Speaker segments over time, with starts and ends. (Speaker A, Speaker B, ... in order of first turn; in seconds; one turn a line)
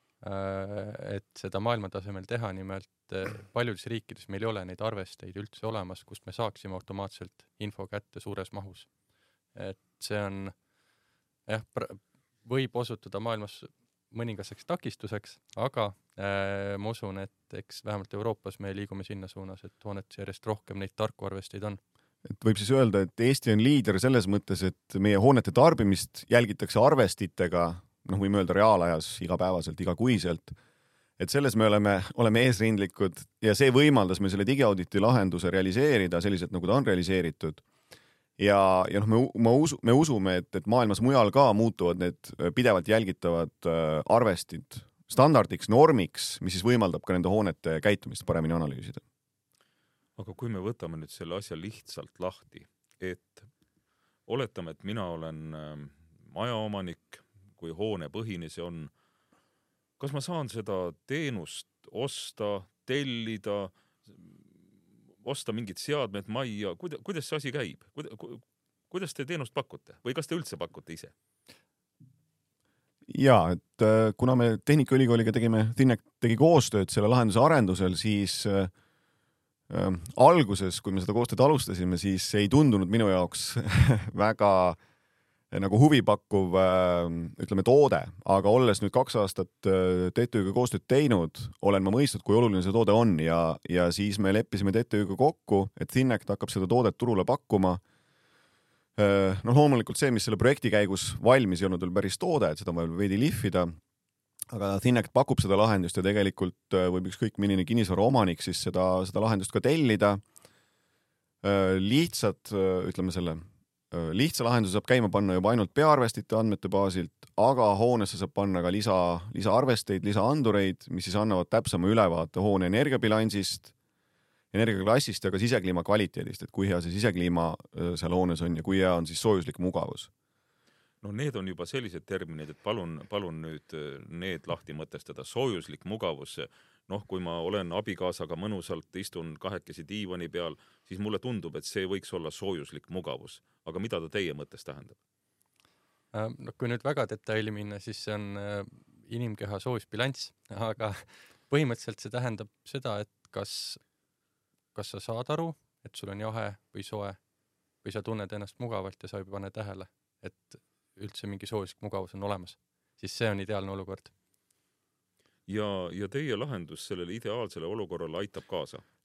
Speaker A: 0.2-8.9
Speaker A: 9.5-10.5
Speaker A: 11.5-21.8
Speaker B: 22.2-30.6
Speaker B: 31.2-37.6
Speaker B: 38.4-49.0
Speaker C: 50.2-53.5
Speaker C: 54.3-58.9
Speaker C: 60.0-64.3
Speaker C: 65.2-71.1
Speaker B: 73.1-78.7
Speaker B: 79.7-84.8
Speaker B: 85.5-97.8
Speaker B: 99.0-103.8
Speaker B: 104.5-110.2
Speaker B: 111.4-123.7
Speaker B: 124.5-130.1
Speaker C: 131.0-145.0
Speaker A: 146.1-153.8
Speaker A: 154.8-157.2
Speaker A: 157.8-164.1
Speaker C: 165.5-168.8